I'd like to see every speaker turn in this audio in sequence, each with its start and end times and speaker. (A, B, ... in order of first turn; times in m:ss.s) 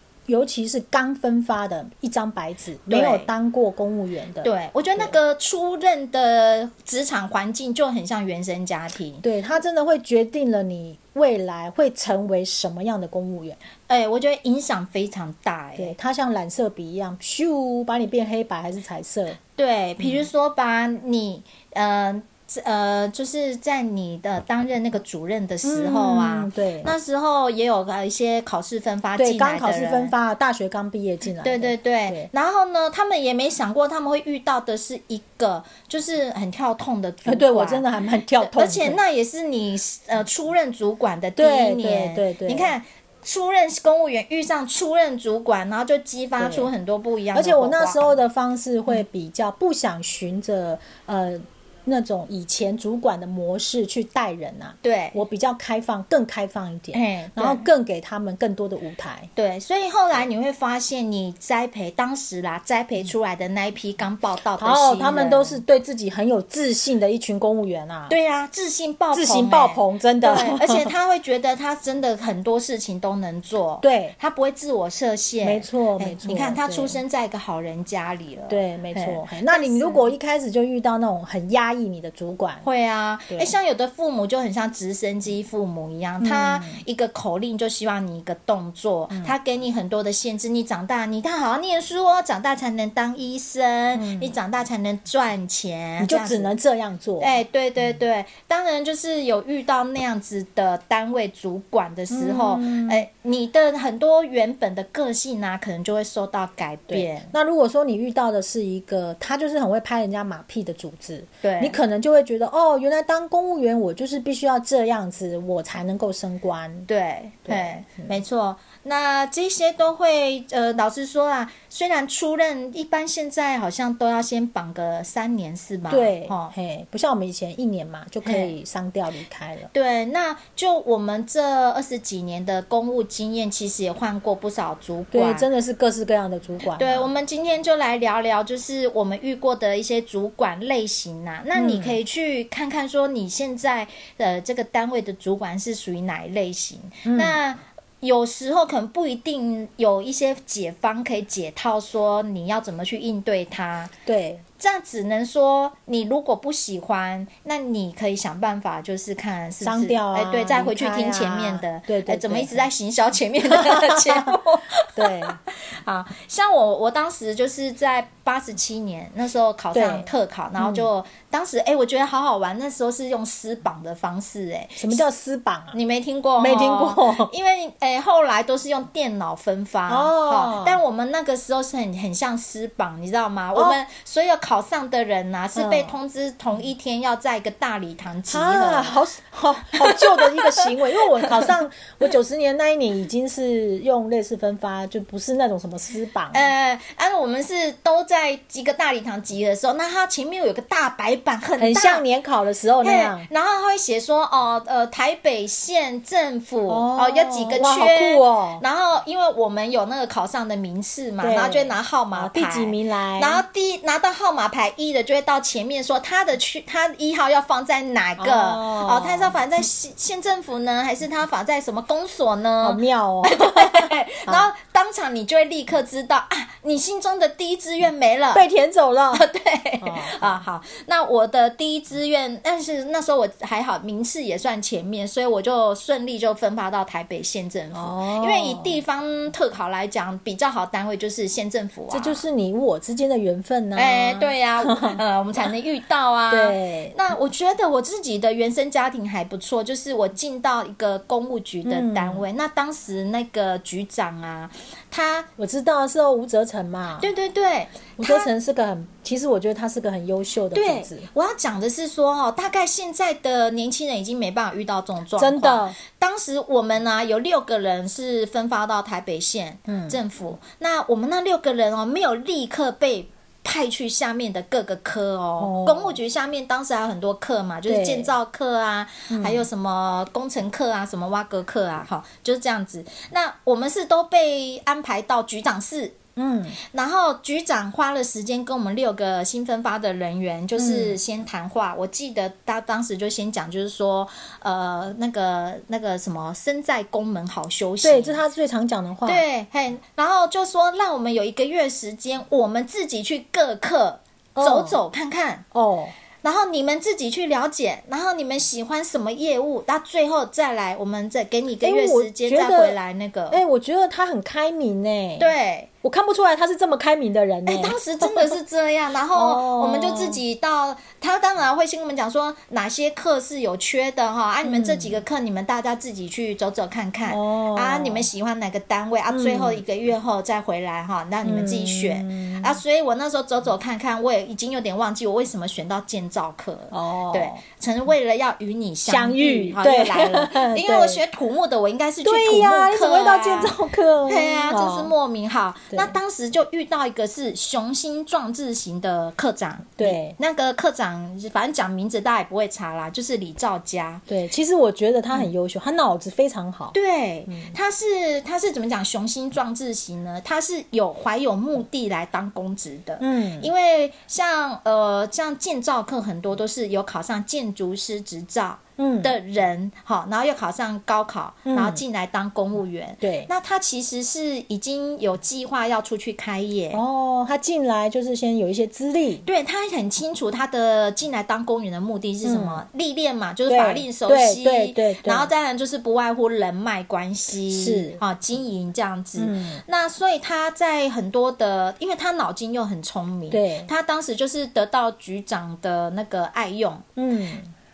0:00.3-0:05.1 A
0:02.9-0:03.3 B
0:04.4-0:09.2 B
0:09.2-0:13.6 A
0:13.9-0:15.9 B
0:15.8-0:19.4 A
0:19.6-0:30.1 B
0:25.6-0:26.9 A
0:29.2-0:32.3 A
0:31.4-0:48.2 B
0:37.2-0:39.0 A
0:41.4-0:42.7 A
0:46.4-0:46.7 A
0:47.3-0:59.3 A
0:54.8-0:55.2 B
0:56.9-0:57.6 B
0:59.4-1:05.6 B
1:04.6-1:08.1 A
1:08.1-1:20.1 B
1:09.1-1:10.9 A
1:13.8-1:14.1 A
1:15.4-1:17.0 A
1:18.5-1:22.6 A
1:22.6-1:36.5 B
1:26.2-1:26.8 A
1:33.9-1:34.3 A
1:36.0-1:37.3 A
1:37.2-1:47.3 B
1:42.1-1:43.0 A
1:46.9-1:56.9 A
1:51.4-1:51.8 B
1:56.9-2:06.5 B
1:57.5-1:58.1 A
2:05.9-2:09.7 A
2:08.2-2:08.5 B
2:09.7-2:15.5 B
2:15.1-2:17.1 A
2:16.7-2:33.9 B
2:21.5-2:22.0 A
2:27.0-2:27.4 A
2:34.1-2:34.4 A
2:34.6-2:55.0 B
2:39.6-2:42.6 A
2:43.5-2:44.3 A
2:45.0-2:45.4 A
2:49.7-2:50.9 A
2:54.8-2:55.8 A
2:55.7-3:09.0 B
2:56.4-2:57.3 A
2:59.9-3:00.8 A
3:05.5-3:05.9 A
3:08.3-3:16.4 A
3:09.8-3:11.5 B
3:16.3-3:22.0 B
3:21.6-3:23.3 A
3:22.8-3:48.4 B
3:26.7-3:28.6 A
3:31.2-3:33.4 A
3:38.2-3:39.4 A
3:42.6-3:44.5 A
3:48.3-3:49.2 A
3:49.1-4:02.2 B
3:49.8-3:50.4 A
3:57.7-3:58.8 A
4:01.9-4:05.0 A
4:03.7-4:15.3 B
4:06.3-4:07.0 A
4:11.6-4:12.2 A
4:15.4-4:17.1 A
4:17.0-4:18.3 B
4:18.0-4:21.1 A
4:20.5-4:46.0 B
4:25.2-4:25.8 A
4:29.7-4:30.0 A
4:35.4-4:36.0 A
4:37.7-4:38.1 A
4:39.1-4:39.5 A
4:46.2-4:46.6 A
4:46.6-4:58.2 B
4:50.6-4:51.0 A
4:57.8-4:59.2 A
4:59.0-5:05.4 B
5:04.4-5:04.8 A
5:05.5-5:05.9 A
5:06.2-5:13.4 B
5:11.6-5:12.8 A
5:13.3-5:15.3 A
5:15.2-5:15.7 B
5:15.8-5:18.3 A
5:17.4-5:43.5 B
5:19.1-5:20.2 A
5:24.4-5:25.0 A
5:27.1-5:28.1 A
5:29.1-5:29.6 A
5:31.2-5:32.6 A
5:36.7-5:37.4 A
5:38.8-5:41.0 A
5:42.0-5:44.9 A
5:44.1-5:54.0 B
5:49.8-5:50.2 A
5:54.1-5:56.7 A
5:56.7-6:16.8 B
5:57.3-5:57.6 A
6:03.0-6:03.5 A
6:08.8-6:09.1 A
6:11.4-6:11.8 A
6:13.0-6:13.3 A
6:16.7-6:19.2 A
6:19.2-6:36.8 B
6:22.2-6:22.6 A
6:23.5-6:25.3 A
6:27.5-6:28.0 A
6:29.2-6:29.6 A
6:33.3-6:33.7 A
6:37.0-6:37.5 A